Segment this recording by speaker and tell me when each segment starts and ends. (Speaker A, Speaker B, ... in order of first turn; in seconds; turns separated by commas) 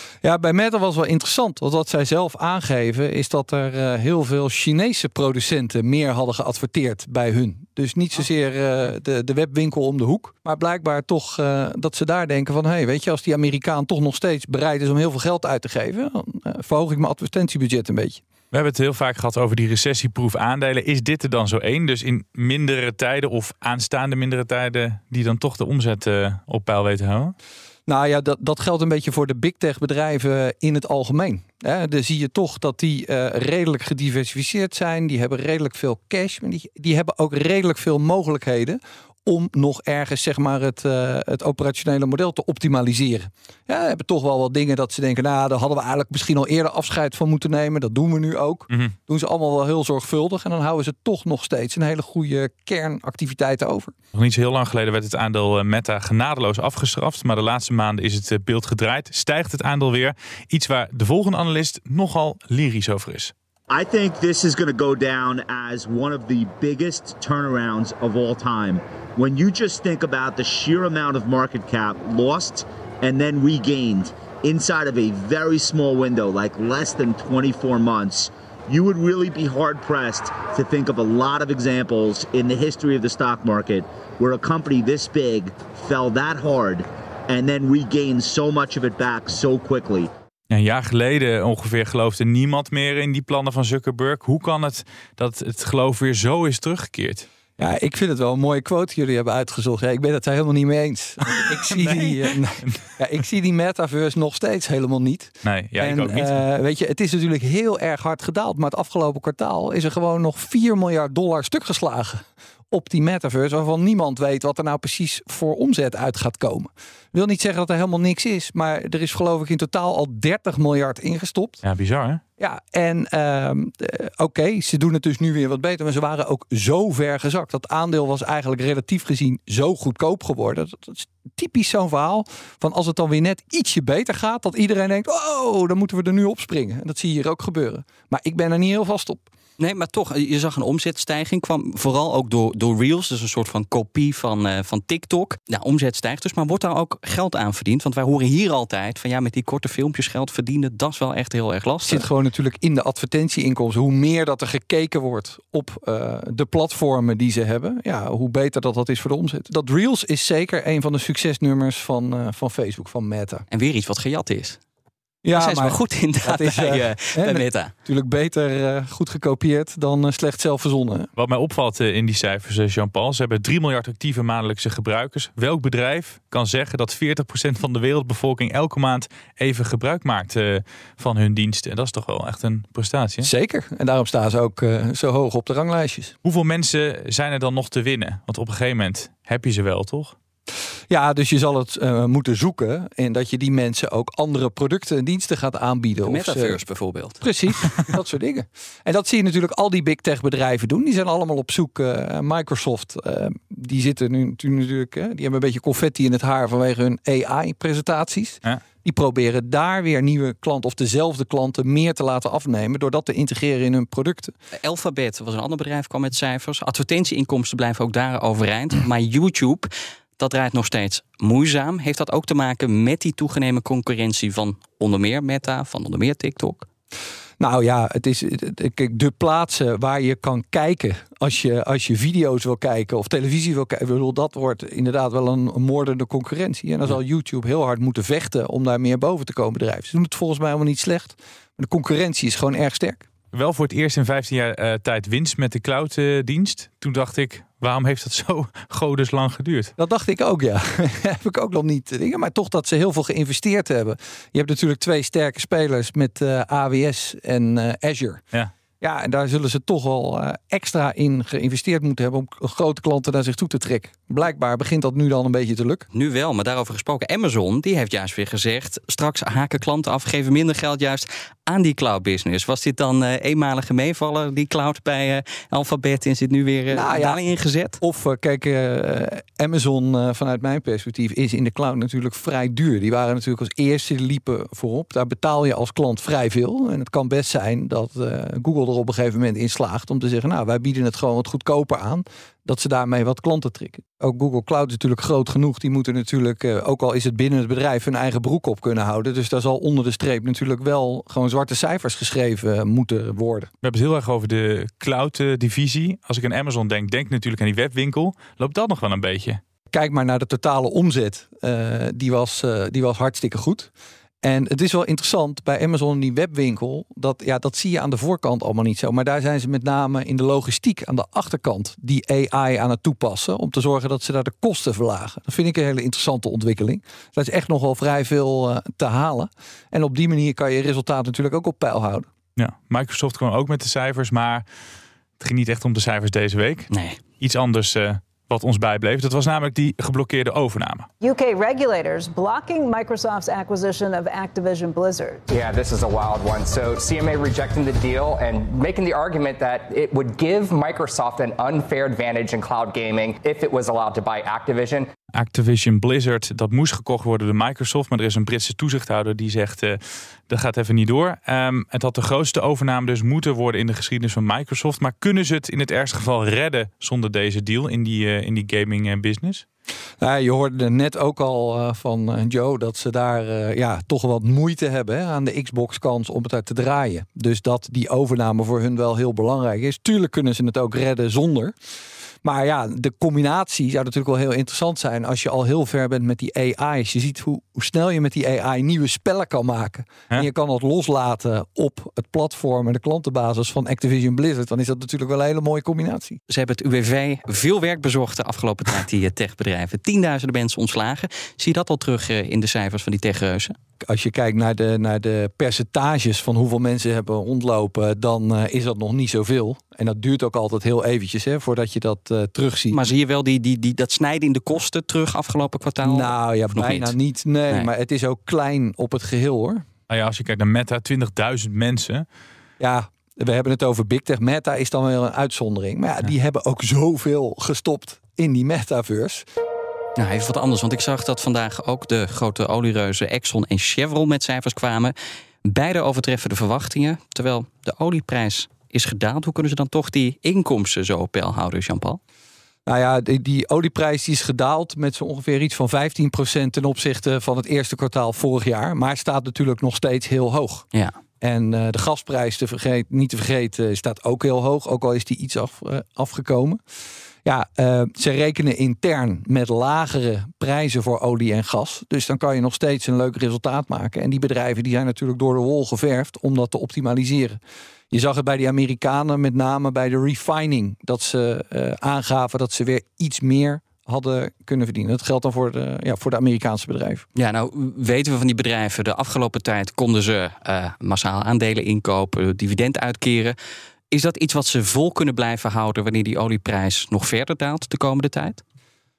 Speaker A: 0.2-18.2, Speaker B: 18.5-27.3, Speaker A: 27.9-53.9, Speaker B: 54.1-63.3, Speaker C: 63.7-90.1, Speaker B: 90.5-97.3, Speaker A: 97.6-121.6, Speaker B: 101.7-102.3, Speaker B: 105.4-106.4, Speaker B: 121.6-122.2, Speaker A: 122.4-139.3, Speaker D: 139.6-152.1, Speaker A: 151.8-163.4, Speaker D: 163.5-164.6, Speaker A: 165.2-171.1, Speaker D: 165.3-167.7, Speaker B: 171.2-183.3, Speaker A: 183.2-186.1, Speaker B: 186.2-190.1, Speaker A: 190.9-196.6, Speaker D: 196.0-197.2, Speaker A: 197.2-214.3, Speaker D: 214.6-226.7, Speaker A: 227.4-243.1, Speaker B: 243.3-249.7, Speaker A: 249.8-258.2, Speaker A: 258.8-265.9, Speaker D: 265.9-277.8, Speaker A: 276.7-277.2, Speaker A: 277.8-303.5, Speaker B: 303.6-309.4, Speaker A: 309.7-313.7, Speaker A: 314.2-332.1, Speaker B: 332.4-334.4, Speaker B: 335.2-336.7, Speaker D: 336.7-337.0, Speaker B: 337.2-340.9, Speaker E: 341.0-345.2, Speaker F: 345.3-354.9, Speaker B: 355.1-369.4, Speaker A: 370.0-381.6, Speaker A: 382.2-396.2, Speaker D: 396.3-403.6, Speaker A: 403.8-412.8, Speaker D: 412.7-416.9, Speaker A: 415.8-419.6, Speaker B: 419.9-422.1, Speaker A: 422.6-429.2, Speaker D: 430.0-434.9, Speaker D: 435.4-442.0, Speaker A: 442.6-450.7, Speaker A: 451.2-456.6, Speaker A: 457.2-467.4, Speaker A: 467.9-477.0, Speaker D: 477.1-483.3, Speaker D: 483.9-488.4